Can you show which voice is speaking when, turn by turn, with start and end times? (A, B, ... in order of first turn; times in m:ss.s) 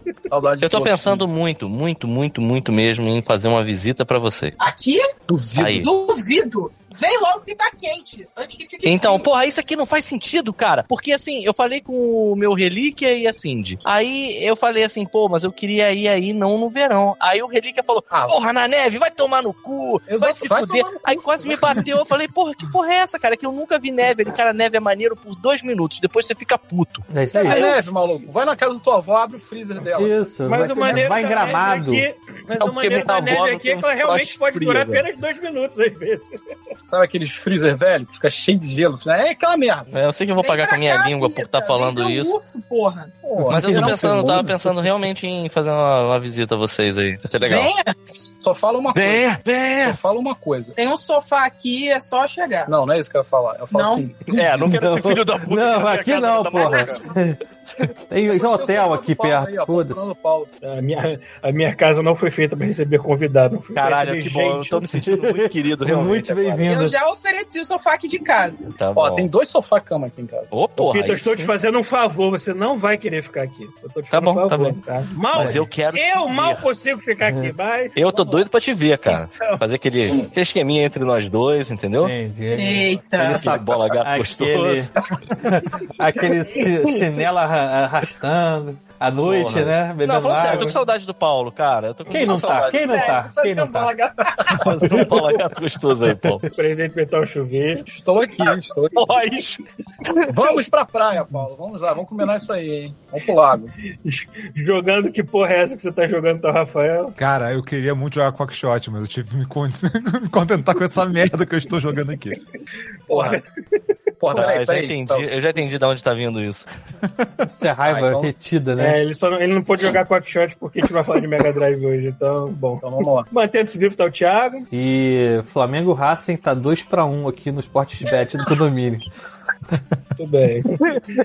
0:00.3-0:01.2 A
0:00.6-0:04.5 B
0:04.6-0:05.1 C
0:05.3-0:05.9 A
0:05.5-0:05.9 B
0:05.7-0:09.3 C
0:08.8-0:27.7 B
0:18.1-0:18.4 A
0:20.1-0:21.9 A
0:27.1-0:27.7 D
0:27.3-0:31.0 A
0:30.0-0:32.0 D
0:30.4-0:36.3 E
0:32.6-0:35.0 B
0:36.9-0:39.9 A
0:39.9-0:42.3 B
0:40.4-0:43.1 C
0:43.2-0:44.8 A
0:43.4-0:44.5 D
0:43.4-0:47.7 B
0:47.4-0:47.9 C
0:48.4-0:50.7 A
0:48.9-0:50.0 B
0:50.8-0:52.7 C
0:52.7-0:54.4 A
0:53.7-0:54.1 C
0:54.2-0:57.0 B
0:54.5-1:00.1 D
0:58.3-1:00.5 A
1:00.6-1:04.8 E
1:03.8-1:06.7 B
1:05.0-1:07.0 D
1:06.6-1:08.7 C
1:08.7-1:09.3 B
1:08.9-1:10.5 A
1:10.5-1:11.5 B
1:10.8-1:18.5 E
1:14.1-1:14.8 B
1:15.3-1:16.7 B
1:15.3-1:15.7 D
1:17.2-1:17.5 D
1:18.0-1:22.1 B
1:19.1-1:19.6 E
1:22.0-1:30.8 D
1:22.5-1:23.6 C
1:23.2-1:25.1 B
1:29.2-1:33.2 B
1:32.0-1:33.9 D
1:32.3-1:34.6 C
1:34.5-1:36.4 B
1:34.6-1:35.4 D
1:36.0-1:36.4 D
1:36.5-1:37.8 E
1:37.8-1:39.0 A
1:38.9-1:40.3 B
1:40.2-1:43.7 A
1:44.0-1:47.2 E
1:47.2-1:52.4 F
1:53.1-1:53.4 A
1:53.1-1:53.4 E
1:54.2-1:55.3 A
1:54.3-1:56.7 B
1:57.5-1:59.0 D
1:57.8-1:58.3 B
1:58.8-2:04.7 E
2:02.8-2:03.3 A
2:04.7-2:09.0 D
2:10.2-2:11.0 E